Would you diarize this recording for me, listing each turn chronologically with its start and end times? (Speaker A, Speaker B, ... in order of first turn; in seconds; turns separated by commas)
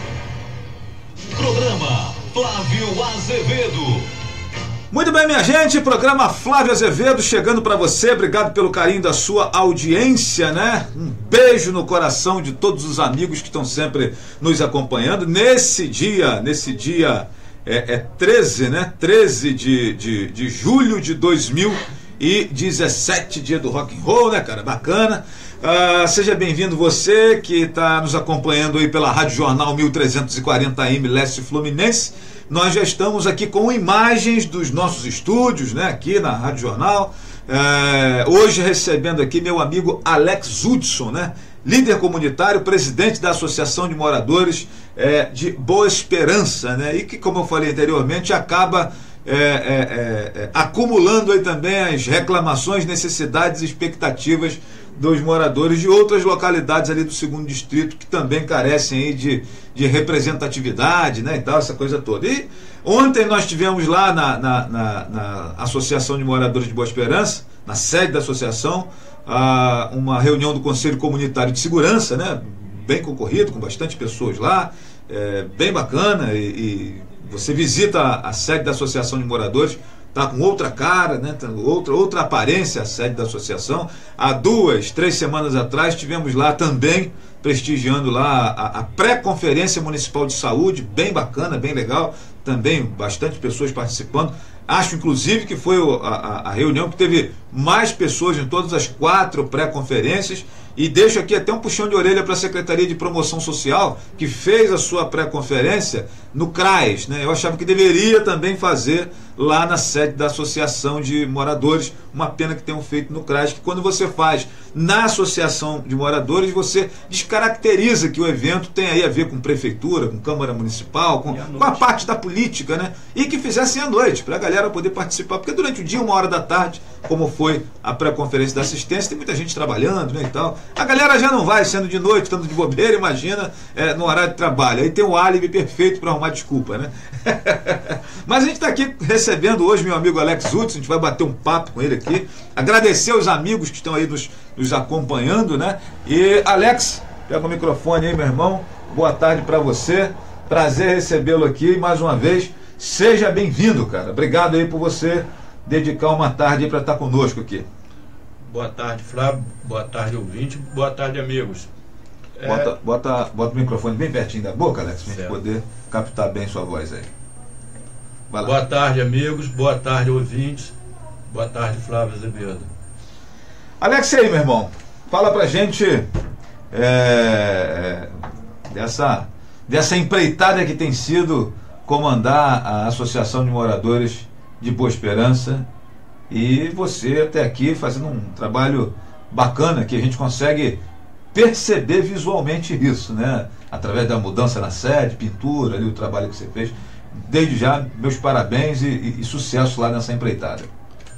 Speaker A: 1.3-4.0, Speaker B: 4.9-157.7, Speaker C: 121.3-121.9, Speaker C: 158.4-161.7, Speaker C: 162.4-162.7, Speaker B: 162.4-167.1, Speaker C: 165.1-165.4, Speaker B: 168.3-168.6, Speaker C: 168.4-170.7, Speaker C: 171.3-172.7, Speaker B: 173.8-176.1, Speaker B: 176.7-185.7, Speaker B: 186.3-190.8, Speaker B: 191.3-200.7